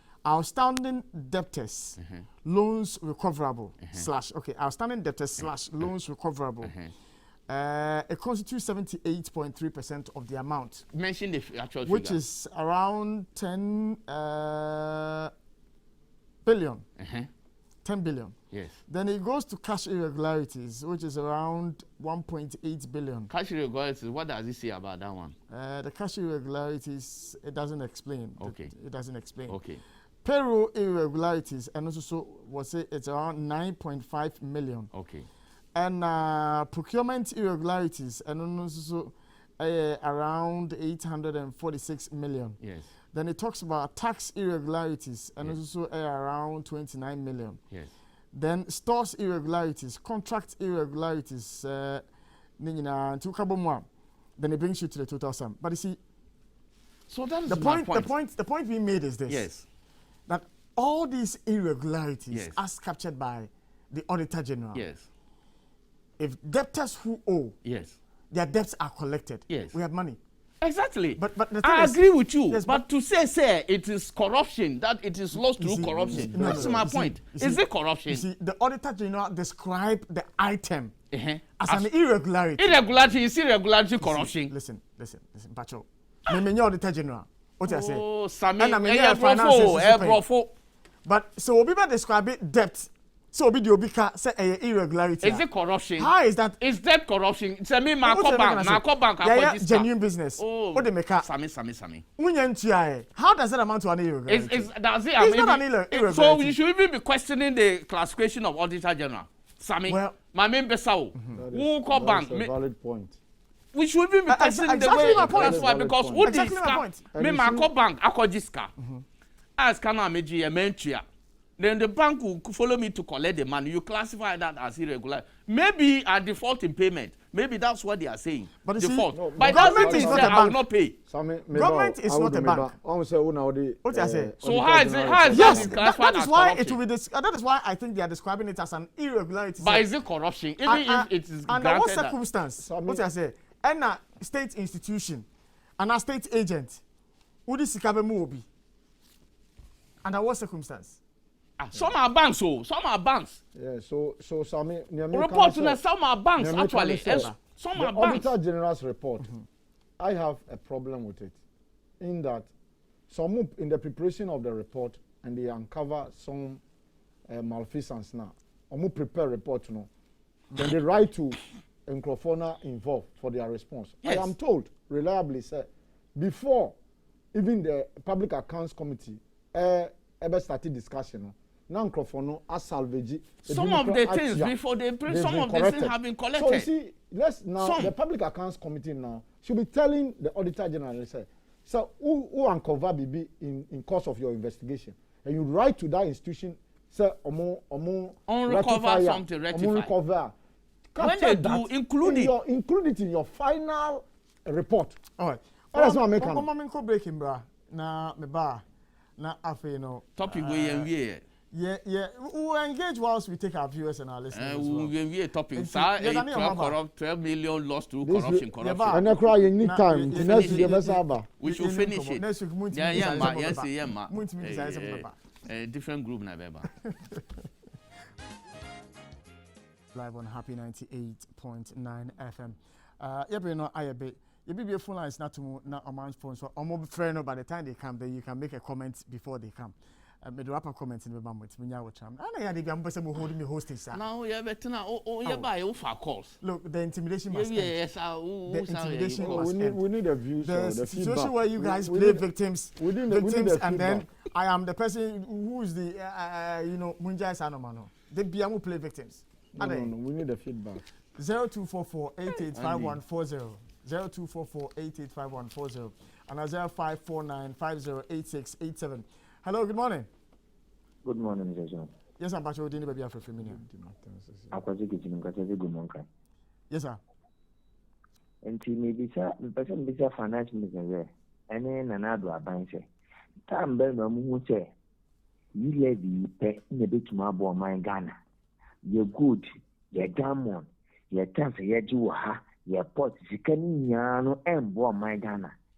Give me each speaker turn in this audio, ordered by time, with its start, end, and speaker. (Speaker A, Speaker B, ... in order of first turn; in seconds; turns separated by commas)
Speaker A: 0.2-6.7, Speaker B: 2.0-2.2, Speaker B: 6.6-6.9, Speaker A: 7.5-10.8, Speaker B: 10.9-12.2, Speaker A: 11.8-15.3, Speaker A: 16.4-16.8, Speaker B: 17.0-17.3, Speaker A: 17.8-18.4, Speaker B: 18.5-18.8, Speaker A: 18.9-23.3, Speaker B: 23.3-25.3, Speaker A: 25.5-29.6, Speaker B: 28.4-28.7, Speaker B: 29.5-29.8, Speaker A: 30.2-34.9, Speaker B: 34.9-35.3, Speaker A: 35.7-42.6, Speaker B: 42.6-42.9, Speaker A: 43.1-47.6, Speaker A: 48.3-52.0, Speaker A: 52.6-53.9, Speaker A: 54.4-56.0, Speaker B: 57.1-58.1, Speaker A: 57.5-59.5, Speaker B: 59.3-59.6, Speaker A: 60.3-64.8, Speaker B: 62.3-62.6, Speaker B: 64.7-65.1, Speaker A: 66.2-67.5, Speaker B: 67.6-68.0, Speaker A: 68.3-70.2, Speaker B: 69.5-69.8, Speaker B: 70.6-78.2, Speaker A: 71.2-72.8, Speaker A: 75.4-80.9, Speaker B: 81.1-81.9, Speaker A: 81.6-82.8, Speaker B: 82.6-84.5, Speaker A: 84.0-88.0, Speaker B: 87.6-90.5, Speaker A: 88.6-90.2, Speaker A: 91.0-95.4, Speaker B: 95.2-102.0, Speaker A: 96.0-96.6, Speaker A: 98.0-101.3, Speaker A: 102.2-106.6, Speaker B: 104.3-112.5, Speaker A: 109.9-110.2, Speaker C: 111.3-113.2, Speaker B: 113.7-118.7, Speaker A: 114.3-117.0, Speaker C: 114.8-116.4, Speaker C: 117.1-117.7, Speaker A: 118.8-119.0, Speaker B: 119.6-121.0, Speaker B: 121.6-130.9, Speaker A: 128.6-130.6, Speaker C: 129.1-130.4, Speaker C: 131.1-135.8, Speaker A: 131.5-132.7, Speaker A: 133.8-134.3, Speaker B: 134.4-136.8, Speaker A: 135.3-139.8, Speaker B: 139.6-142.2, Speaker A: 140.6-145.2, Speaker C: 142.6-143.0, Speaker A: 145.8-146.8, Speaker A: 147.5-148.4, Speaker A: 150.0-151.0, Speaker B: 151.6-153.4, Speaker C: 153.5-155.8, Speaker B: 155.1-158.3, Speaker C: 156.4-159.3, Speaker A: 157.1-157.4, Speaker C: 160.0-161.3, Speaker C: 162.0-162.5, Speaker C: 163.1-166.6, Speaker C: 167.3-169.9, Speaker C: 170.5-176.8, Speaker B: 174.0-174.3, Speaker C: 177.3-184.5, Speaker B: 183.5-186.7, Speaker C: 185.1-200.3, Speaker B: 187.6-187.9, Speaker B: 198.3-199.9, Speaker C: 200.9-205.0, Speaker B: 201.0-202.3, Speaker A: 205.2-208.6, Speaker C: 205.7-206.5, Speaker A: 209.2-210.9, Speaker B: 210.2-211.2, Speaker A: 211.5-214.9, Speaker B: 214.3-219.1, Speaker A: 215.5-216.8, Speaker C: 218.0-221.3, Speaker A: 218.6-219.1, Speaker A: 219.6-225.2, Speaker B: 220.1-226.7, Speaker A: 226.8-227.2, Speaker A: 229.9-244.0, Speaker B: 243.9-246.3, Speaker A: 246.4-247.8, Speaker B: 247.3-249.5, Speaker A: 248.4-249.8, Speaker C: 249.2-254.1, Speaker A: 250.4-259.9, Speaker C: 259.5-260.8, Speaker A: 261.2-270.1, Speaker B: 262.5-263.0, Speaker D: 271.0-271.9, Speaker A: 272.2-273.6, Speaker C: 273.4-274.6, Speaker D: 274.5-276.0, Speaker A: 276.7-277.0, Speaker D: 278.4-282.9, Speaker D: 283.5-284.7, Speaker D: 285.5-288.1, Speaker D: 288.8-295.5